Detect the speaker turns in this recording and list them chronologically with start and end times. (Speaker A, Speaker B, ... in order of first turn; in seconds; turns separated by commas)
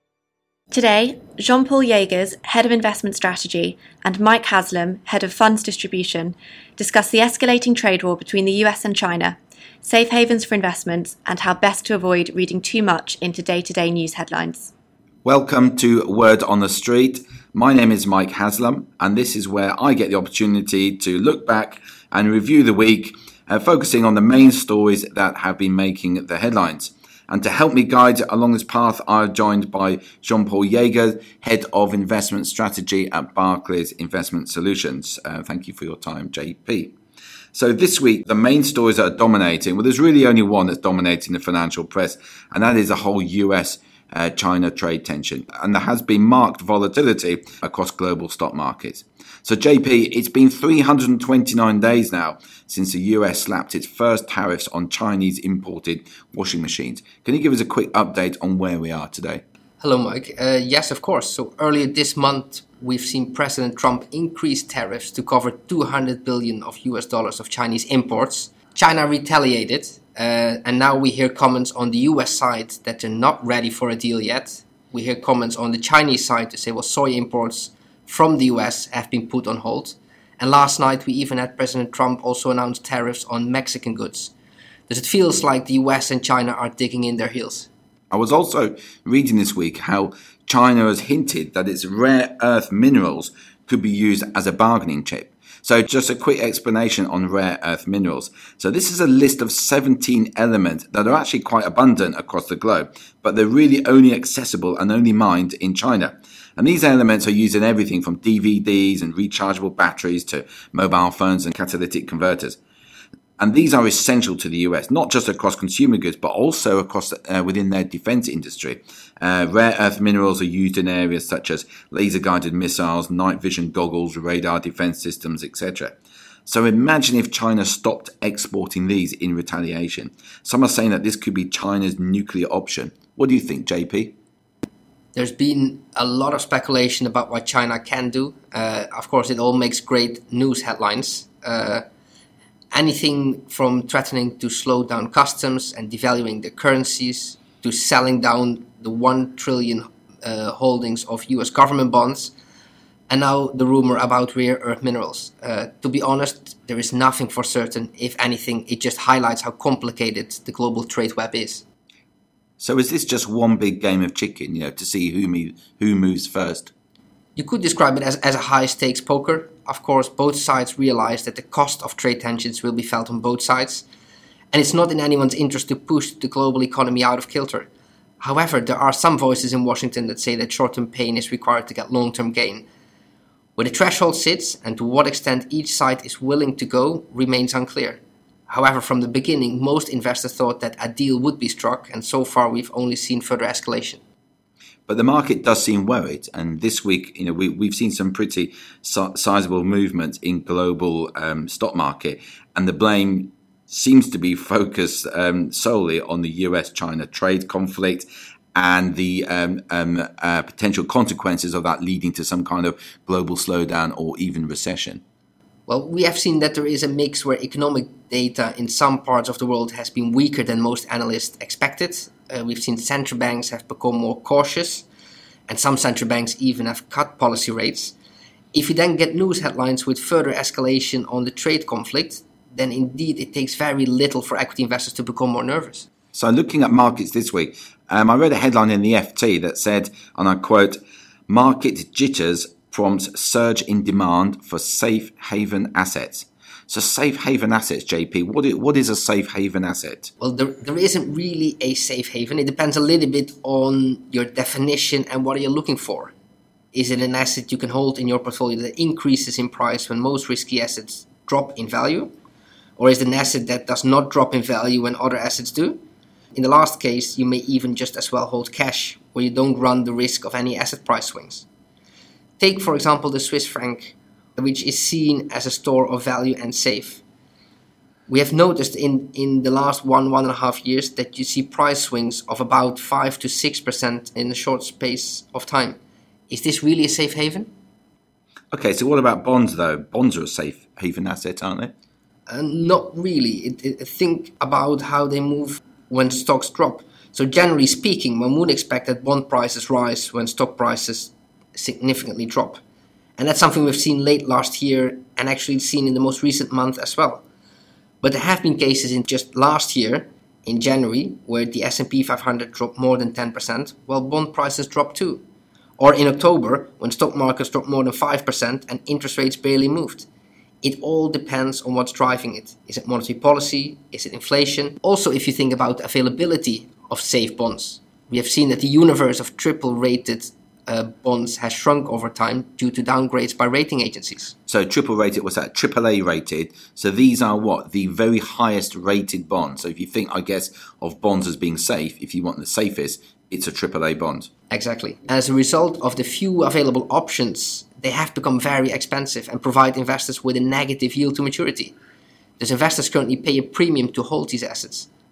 Speaker A: 0.7-14.7, Speaker B: 15.2-37.0, Speaker B: 37.5-59.4, Speaker C: 59.8-84.3, Speaker C: 84.9-87.7, Speaker B: 88.1-112.6, Speaker B: 113.4-134.2, Speaker C: 135.2-141.8, Speaker C: 142.7-152.3, Speaker C: 153.1-161.6, Speaker B: 162.6-166.7, Speaker C: 167.4-173.8, Speaker C: 174.5-177.7, Speaker C: 178.2-182.7, Speaker C: 183.6-194.0, Speaker B: 194.9-215.0, Speaker C: 215.7-224.9, Speaker C: 225.5-227.9, Speaker C: 228.5-235.9, Speaker B: 236.1-250.1, Speaker C: 250.2-256.1, Speaker C: 256.7-262.1, Speaker C: 262.8-265.8, Speaker C: 266.4-271.5, Speaker C: 272.4-277.0, Speaker C: 278.1-285.8, Speaker C: 286.3-287.5, Speaker B: 288.5-291.7, Speaker C: 292.3-302.6, Speaker C: 303.2-307.2, Speaker C: 308.0-315.2, Speaker C: 315.8-320.1, Speaker C: 320.6-334.4, Speaker B: 334.5-344.3, Speaker C: 344.5-351.8, Speaker C: 352.4-354.9